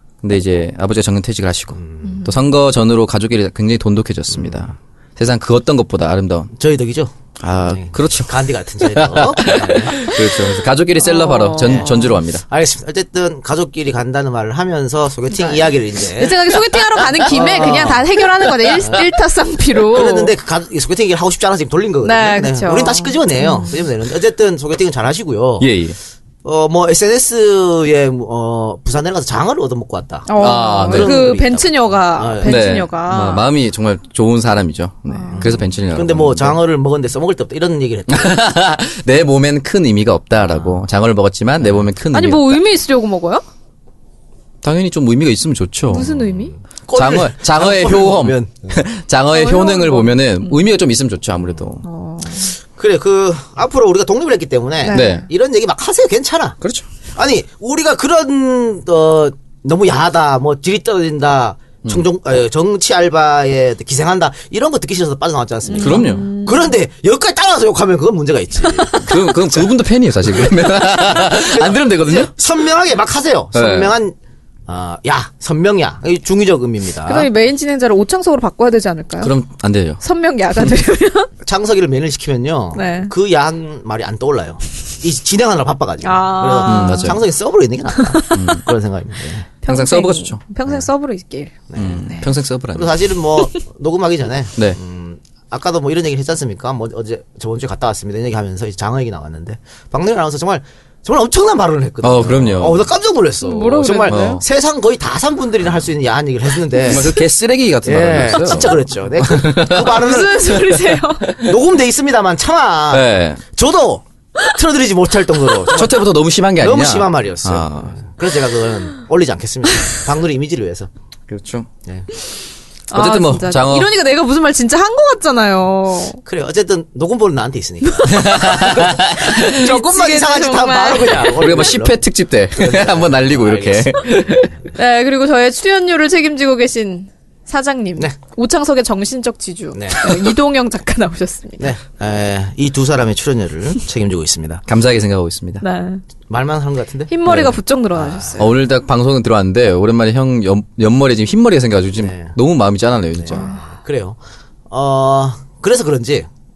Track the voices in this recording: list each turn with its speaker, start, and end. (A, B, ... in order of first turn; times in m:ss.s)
0:00.2-0:06.5 A
0:01.7-0:02.2 B
0:02.0-0:02.3 C
0:04.3-0:04.6 B
0:06.6-0:07.1 B
0:07.4-0:12.4 A
0:07.6-0:10.1 B
0:11.0-0:12.2 C
0:11.6-0:18.2 B
0:15.3-0:20.3 C
0:18.8-0:19.1 B
0:19.9-0:25.7 B
0:22.0-0:23.7 C
0:25.6-0:26.0 A
0:26.4-0:32.5 B
0:30.3-0:33.4 C
0:30.4-0:31.4 A
0:32.4-0:36.6 A
0:35.1-0:35.4 C
0:35.3-0:38.4 B
0:38.1-0:42.6 A
0:40.5-0:40.8 B
0:41.6-0:41.9 B
0:42.1-0:43.4 C
0:44.6-0:46.1 A
0:45.9-0:46.5 C
0:46.0-0:48.8 B
0:46.9-0:51.8 A
0:49.3-0:50.6 C
0:51.8-0:52.6 C
0:52.7-0:56.6 B
0:54.8-0:55.2 C
0:54.9-0:55.2 A
0:57.2-1:09.7 B
1:05.7-1:06.8 C
1:05.8-1:06.3 A
1:08.8-1:09.2 C
1:09.0-1:12.3 A
1:10.2-1:14.2 B
1:13.5-1:14.0 A
1:14.7-1:17.3 B
1:17.1-1:19.3 C
1:19.2-1:20.0 A
1:20.0-1:21.3 C
1:21.4-1:29.5 B
1:22.7-1:23.1 C
1:26.0-1:27.2 C
1:26.6-1:27.2 A
1:28.0-1:28.4 C
1:28.3-1:28.7 A
1:29.6-1:32.2 C
1:29.7-1:30.4 A
1:31.7-1:47.2 B
1:31.7-1:33.0 A
1:42.0-1:42.8 A
1:43.4-1:44.4 C
1:44.1-1:44.4 A
1:46.8-1:49.9 A
1:47.8-1:50.6 B
1:49.8-1:51.2 C
1:51.4-1:56.1 B
1:52.9-1:53.4 A
1:55.7-1:58.0 A
1:56.6-2:00.9 B
2:01.3-2:01.7 A
2:02.9-2:06.2 C
2:02.9-2:03.9 A
2:06.2-2:12.0 B
2:08.0-2:08.3 C
2:08.1-2:09.5 A
2:09.4-2:11.4 C
2:11.3-2:14.5 A
2:12.6-2:13.9 B
2:14.8-2:21.7 C
2:19.7-2:20.2 B
2:21.6-2:24.6 B
2:24.7-2:25.6 A
2:25.6-2:26.0 C
2:26.3-2:27.1 B
2:27.1-2:28.4 C
2:27.2-2:27.6 A
2:27.9-2:28.5 B
2:28.4-2:33.5 A
2:32.0-2:32.3 B
2:33.2-2:34.2 B
2:33.3-2:33.6 C
2:34.7-2:36.3 B